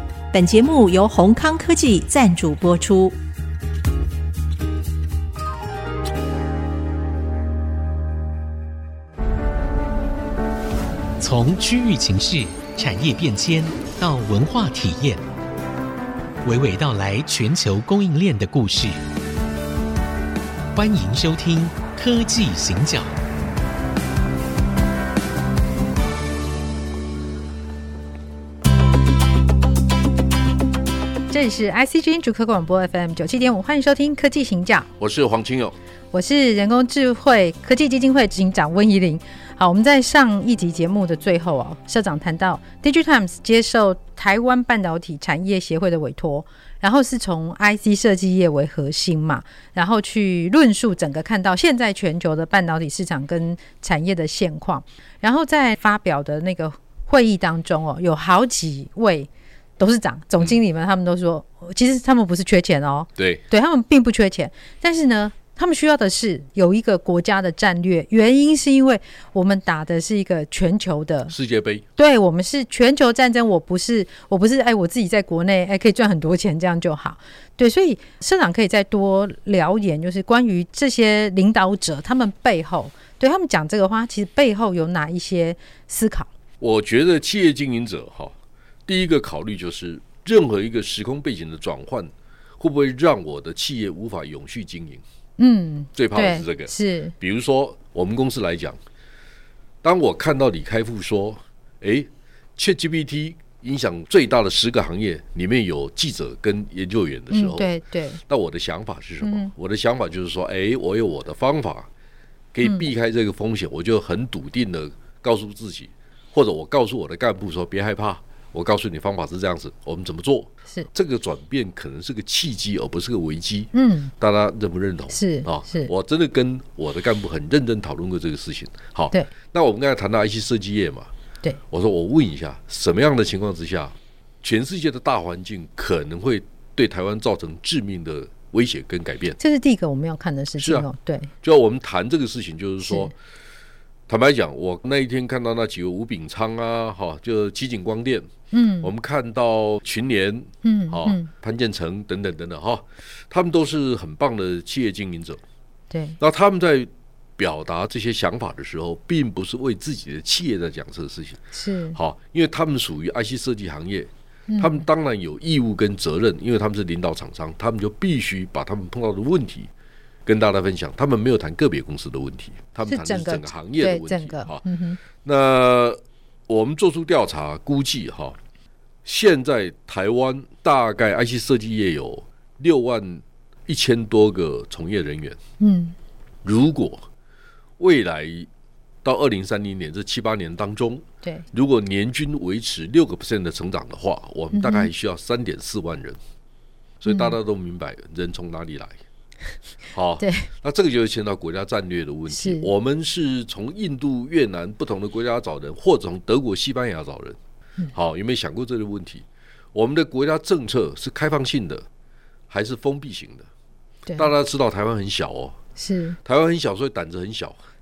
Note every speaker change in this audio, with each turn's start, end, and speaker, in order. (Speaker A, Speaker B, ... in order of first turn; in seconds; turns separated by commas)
Speaker A: 0.3-3.2, Speaker B: 11.2-15.2, Speaker B: 16.4-19.0, Speaker B: 20.7-23.1, Speaker C: 31.3-34.9, Speaker D: 35.0-35.8, Speaker C: 36.1-71.3, Speaker D: 63.2-63.4, Speaker D: 71.3-71.8, Speaker C: 72.0-86.3, Speaker D: 86.6-88.3, Speaker D: 88.9-95.0, Speaker C: 95.4-97.2, Speaker D: 96.0-98.8, Speaker D: 99.8-107.7, Speaker C: 107.3-108.2, Speaker D: 108.3-111.9, Speaker C: 109.2-109.5, Speaker D: 112.5-131.1, Speaker C: 112.6-112.9, Speaker C: 123.7-124.1, Speaker C: 125.1-125.9, Speaker D: 131.7-139.4, Speaker C: 139.4-141.3, Speaker D: 140.6-140.9, Speaker D: 141.4-143.1, Speaker C: 142.8-143.1, Speaker D: 144.1-148.3, Speaker C: 148.5-148.9, Speaker D: 148.8-155.4, Speaker C: 150.6-151.3, Speaker C: 155.9-156.2, Speaker D: 156.2-161.4, Speaker C: 161.5-162.0, Speaker D: 161.9-169.7, Speaker C: 164.5-164.8, Speaker D: 170.3-174.6, Speaker C: 172.9-175.0, Speaker D: 175.2-178.4, Speaker D: 179.1-185.4, Speaker C: 185.6-185.9, Speaker D: 186.4-187.1, Speaker D: 187.8-188.5, Speaker D: 189.0-196.2, Speaker C: 194.5-194.9, Speaker D: 197.0-199.0, Speaker C: 197.1-197.3, Speaker D: 199.9-207.4, Speaker C: 200.2-200.5, Speaker C: 202.3-202.7, Speaker D: 207.9-211.9, Speaker D: 212.5-213.5, Speaker D: 214.2-215.6, Speaker C: 215.8-216.2, Speaker D: 216.2-217.6